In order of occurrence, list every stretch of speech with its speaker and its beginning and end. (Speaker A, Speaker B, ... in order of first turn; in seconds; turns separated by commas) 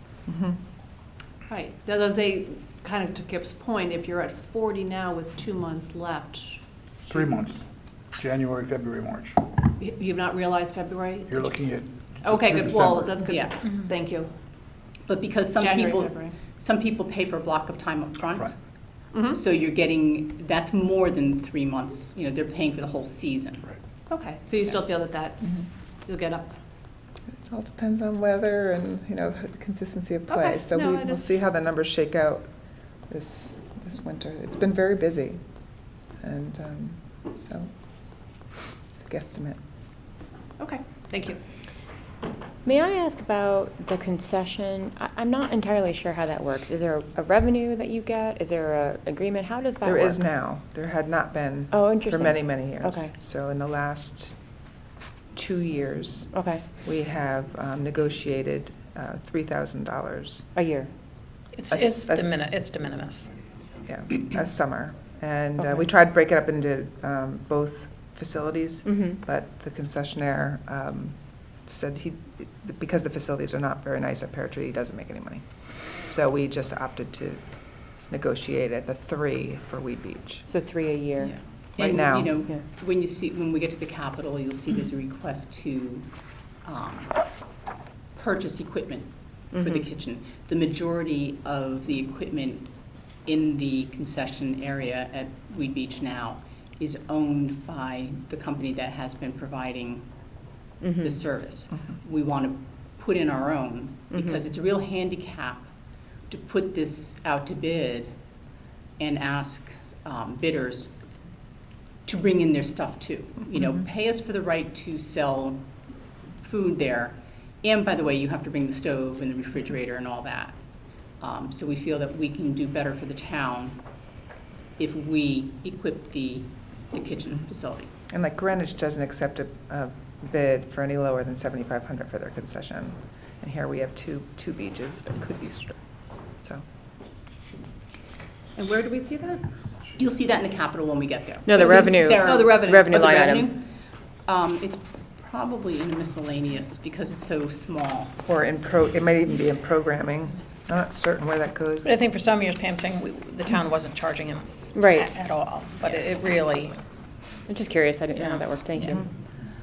Speaker A: 0.3-0.6, Speaker B: 1.5-6.6, Speaker C: 7.1-9.5, Speaker B: 9.8-11.5, Speaker C: 11.2-13.2, Speaker B: 12.2-14.3, Speaker D: 13.2-13.6, Speaker D: 15.0-18.6, Speaker B: 15.6-16.4, Speaker B: 19.1-19.4, Speaker D: 19.1-23.7, Speaker B: 24.1-26.6, Speaker A: 27.4-35.4, Speaker B: 30.3-31.4, Speaker A: 36.2-37.7, Speaker A: 38.9-39.6, Speaker B: 40.6-41.4, Speaker E: 42.6-50.2, Speaker A: 49.8-54.4, Speaker E: 51.7-53.1, Speaker A: 55.3-56.3, Speaker E: 56.3-56.7, Speaker A: 56.8-60.5, Speaker E: 60.5-60.9, Speaker F: 61.5-63.3, Speaker A: 61.7-62.5, Speaker A: 63.8-80.5, Speaker E: 65.6-65.8, Speaker E: 68.8-69.2, Speaker E: 80.5-81.4, Speaker D: 81.2-86.1, Speaker A: 81.8-82.4, Speaker D: 86.6-87.2, Speaker D: 88.1-92.7, Speaker E: 89.5-89.8, Speaker D: 93.2-100.1, Speaker E: 100.8-101.1, Speaker D: 101.0-105.7, Speaker D: 106.3-108.1, Speaker D: 109.0-110.9, Speaker D: 112.0-115.7, Speaker D: 116.4-120.6, Speaker D: 121.2-123.8, Speaker D: 124.8-127.9, Speaker A: 128.1-136.6, Speaker B: 138.6-139.5, Speaker D: 140.0-143.7, Speaker E: 141.4-143.5, Speaker B: 141.6-142.5, Speaker D: 144.2-148.1, Speaker A: 148.2-152.0, Speaker F: 151.8-156.8, Speaker E: 154.7-155.1, Speaker E: 157.5-159.1, Speaker F: 158.2-158.4